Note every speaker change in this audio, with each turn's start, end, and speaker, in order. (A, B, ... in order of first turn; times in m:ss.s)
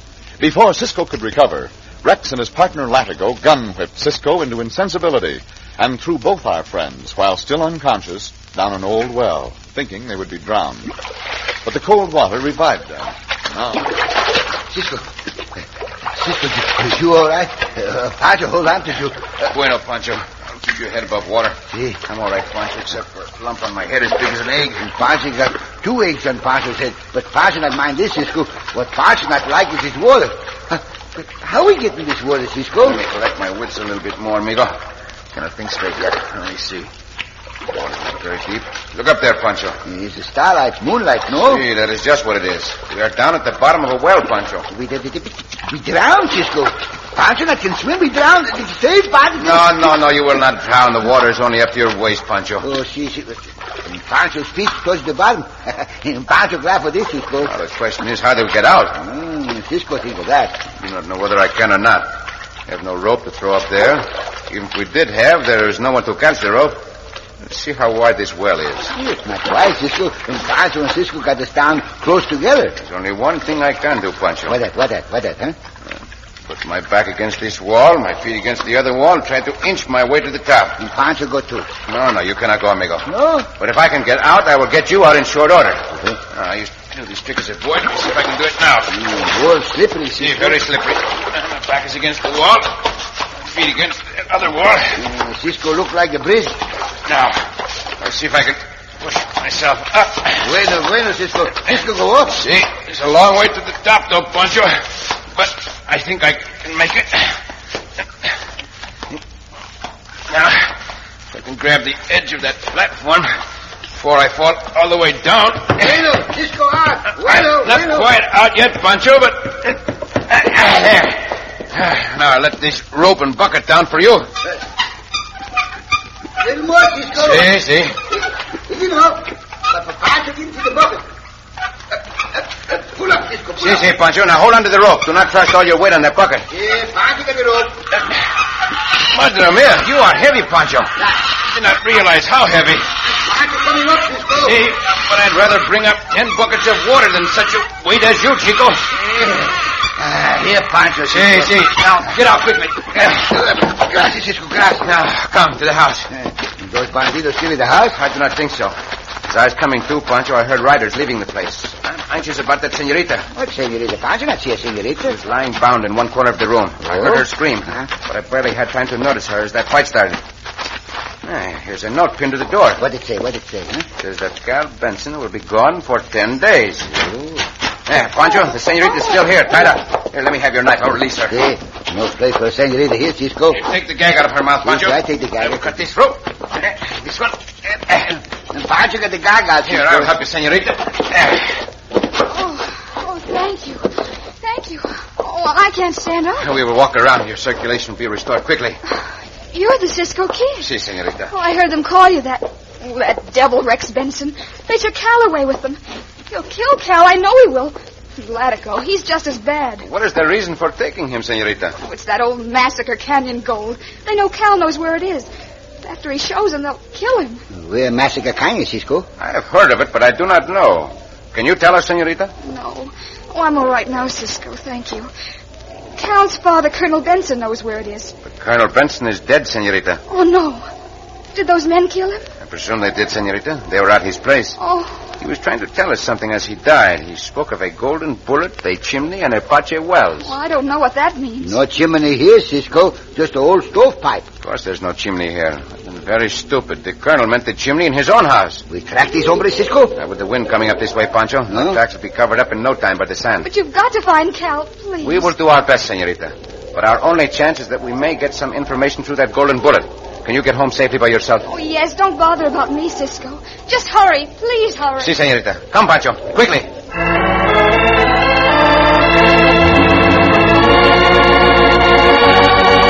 0:00.4-0:10.9 A
0:11.6-0:13.9 A
0:14.7-0:15.1 B
0:16.1-0:19.5 B
0:19.5-0:24.9 C
0:21.7-0:22.0 B
0:24.8-0:33.0 B
0:32.8-0:34.8 C
0:35.3-0:36.9 C
0:37.7-0:39.8 C
0:39.8-0:41.6 B
0:41.4-0:44.7 C
0:44.7-0:49.9 B
0:49.4-0:52.6 C
0:52.6-0:57.5 B
0:57.5-0:59.0 C
0:58.9-1:00.7 B
1:00.8-1:02.1 C
1:02.7-1:06.8 C
1:07.4-1:08.9 C
1:08.9-1:12.8 B
1:12.8-1:14.6 C
1:14.5-1:15.6 B
1:16.5-1:20.8 C
1:20.8-1:21.7 B
1:21.9-1:28.9 C
1:23.1-1:23.5 B
1:28.9-1:30.6 B
1:30.2-1:35.0 C
1:34.9-1:36.6 B
1:37.1-1:37.4 C
1:38.0-1:40.5 C
1:40.4-1:42.4 B
1:42.4-1:47.4 C
1:50.3-1:50.8 C
1:51.3-1:53.3 C
1:54.0-1:56.1 C
1:55.8-1:58.1 B
1:57.2-2:04.3 C
2:06.4-2:07.5 B
2:07.2-2:08.0 C
2:08.1-2:11.0 B
2:12.4-2:13.9 B
2:13.6-2:16.5 C
2:16.5-2:17.9 B
2:19.0-2:20.9 C
2:21.5-2:22.9 C
2:23.0-2:24.7 B
2:24.4-2:29.0 C
2:29.0-2:32.1 B
2:31.1-2:33.3 C
2:33.1-2:34.9 B
2:34.8-2:36.1 C
2:36.1-2:38.0 B
2:37.9-2:38.8 C
2:39.3-2:43.3 C
2:43.3-2:45.2 B
2:45.0-2:50.2 C
2:46.8-2:47.9 B
2:51.2-2:52.8 C
2:52.8-2:53.9 B
2:54.0-2:56.9 C
2:56.9-2:57.5 B
2:57.9-3:01.4 C
3:01.3-3:03.7 B
3:03.5-3:08.2 C
3:04.6-3:05.8 B
3:08.5-3:10.1 B
3:09.6-3:11.6 C
3:12.3-3:16.5 D
3:16.4-3:18.8 C
3:18.9-3:20.7 D
3:20.6-3:21.3 C
3:21.3-3:25.8 D
3:26.3-3:29.9 D
3:29.8-3:31.8 C
3:31.8-3:35.3 D
3:35.8-3:37.4 D
3:37.5-3:39.1 B
3:39.2-3:42.3 C
3:42.4-3:45.1 D
3:46.0-3:48.2 D
3:48.2-3:50.0 C
3:50.1-3:50.7 D
3:51.3-3:52.3 D
3:52.4-3:54.6 C
3:54.6-3:55.0 D
3:55.2-4:00.4 C
4:00.2-4:01.6 D
4:01.4-4:04.3 B
4:04.4-4:08.6 C
4:08.7-4:10.0 B
4:10.0-4:13.5 C
4:11.5-4:11.8 B
4:13.4-4:15.3 D
4:15.0-4:21.5 C
4:21.5-4:25.1 D
4:25.0-4:26.7 C